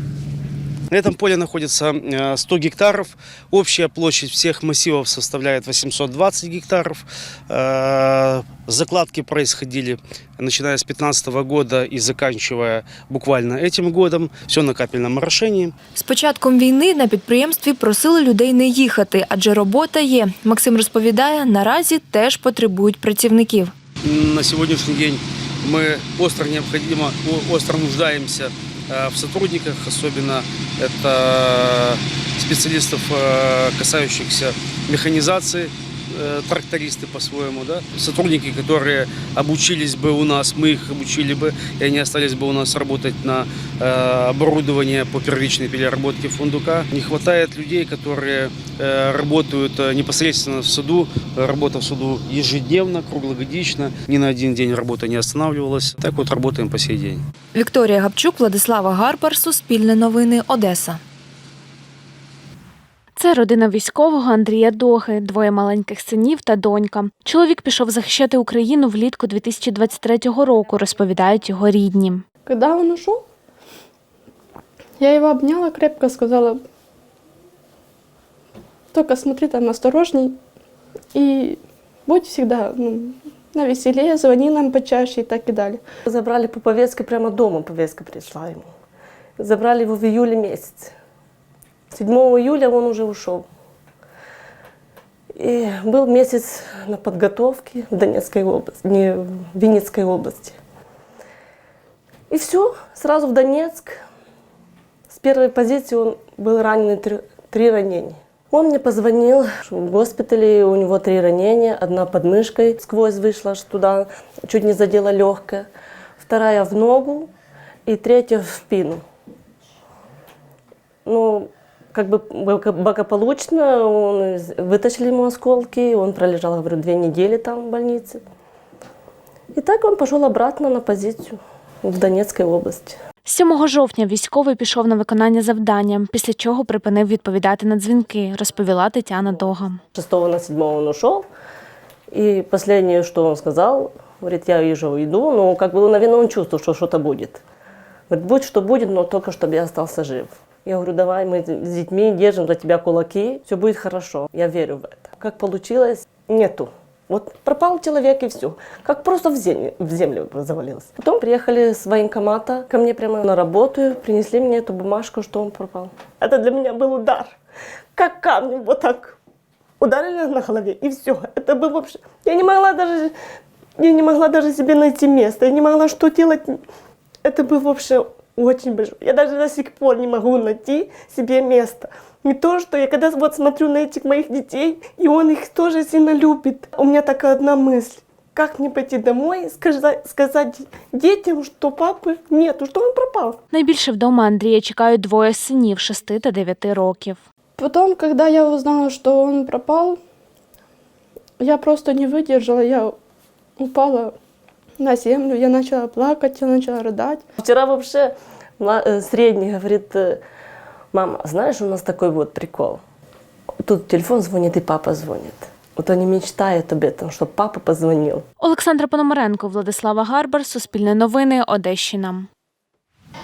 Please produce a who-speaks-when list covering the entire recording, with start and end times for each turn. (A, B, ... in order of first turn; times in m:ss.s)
0:00.9-0:15.7 A
0:16.0-0:23.7 B
0:24.0-0:57.2 A
0:57.5-1:01.0 B
1:03.2-1:12.2 C
1:12.4-1:13.2 D
1:15.0-1:16.6 D
1:18.9-1:20.4 D
1:21.1-1:25.8 D
1:26.1-1:28.7 E
1:29.4-1:30.9 E
1:31.9-1:33.4 E
1:35.4-1:40.6 E
1:42.3-1:44.0 E
1:45.1-1:55.7 E
1:56.2-1:57.3 E
1:57.8-1:59.0 E
2:01.0-2:08.2 E
2:09.5-2:13.0 E
2:13.3-2:19.8 C
2:19.9-2:21.2 E
2:22.1-2:27.4 E
2:28.1-2:47.4 E
2:47.9-2:49.2 E
2:49.8-2:53.1 E
2:53.8-2:56.6 E
2:57.2-3:13.4 E
3:13.5-3:17.2 C
3:17.6-3:20.0 D
3:21.4-3:22.9 D
3:23.6-3:24.1 D
3:24.8-3:27.2 D
3:27.4-3:30.2 E
3:30.9-3:32.8 E
3:33.6-3:38.2 E
3:38.4-3:42.3 C